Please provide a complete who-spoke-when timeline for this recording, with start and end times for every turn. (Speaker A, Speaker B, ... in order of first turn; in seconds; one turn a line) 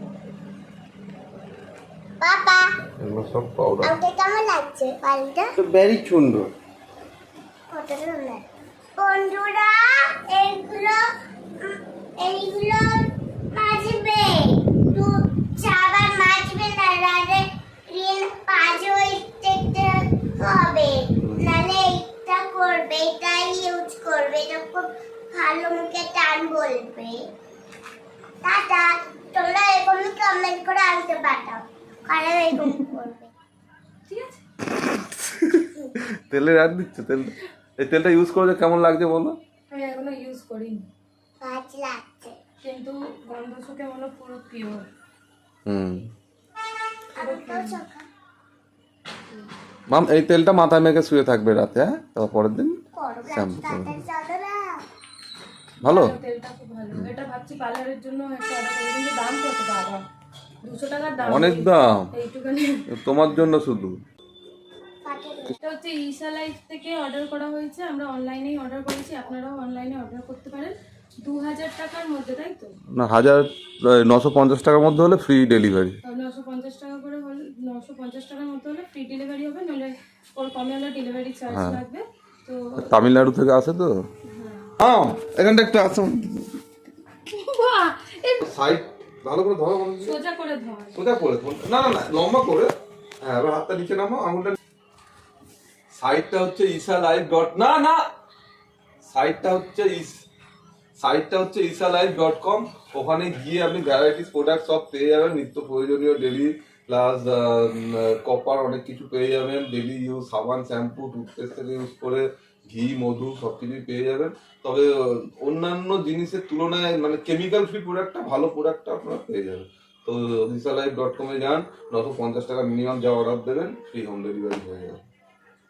Speaker A: 2.2-2.7
Speaker B: 3.0-3.9
Speaker A: 3.8-5.5
Speaker B: 5.5-6.5
Speaker A: 7.7-8.4
Speaker A: 9.0-11.0
Speaker A: 11.6-27.2
Speaker A: 28.4-33.3
Speaker C: 34.1-34.4
Speaker B: 35.2-35.6
Speaker B: 36.2-39.4
Speaker C: 39.7-40.9
Speaker A: 41.4-42.4
Speaker C: 42.6-44.9
Speaker B: 45.6-46.1
Speaker A: 47.1-48.0
Speaker C: 47.2-47.8
Speaker B: 49.9-52.8
Speaker A: 52.9-54.8
Speaker B: 53.3-54.0
Speaker C: 55.8-60.0
Speaker B: 55.8-56.1
Speaker C: 60.6-62.9
Speaker B: 61.2-62.1
Speaker B: 62.9-64.0
Speaker A: 65.0-65.6
Speaker C: 65.6-72.8
Speaker B: 72.9-76.0
Speaker C: 76.0-82.9
Speaker B: 81.5-81.8
Speaker B: 82.8-84.0
Speaker C: 84.3-84.7
Speaker B: 84.8-86.5
Speaker C: 87.3-88.4
Speaker B: 88.4-90.2
Speaker C: 90.0-91.0
Speaker B: 90.9-94.6
Speaker B: 95.9-98.0
Speaker B: 99.0-100.2
Speaker B: 101.0-125.0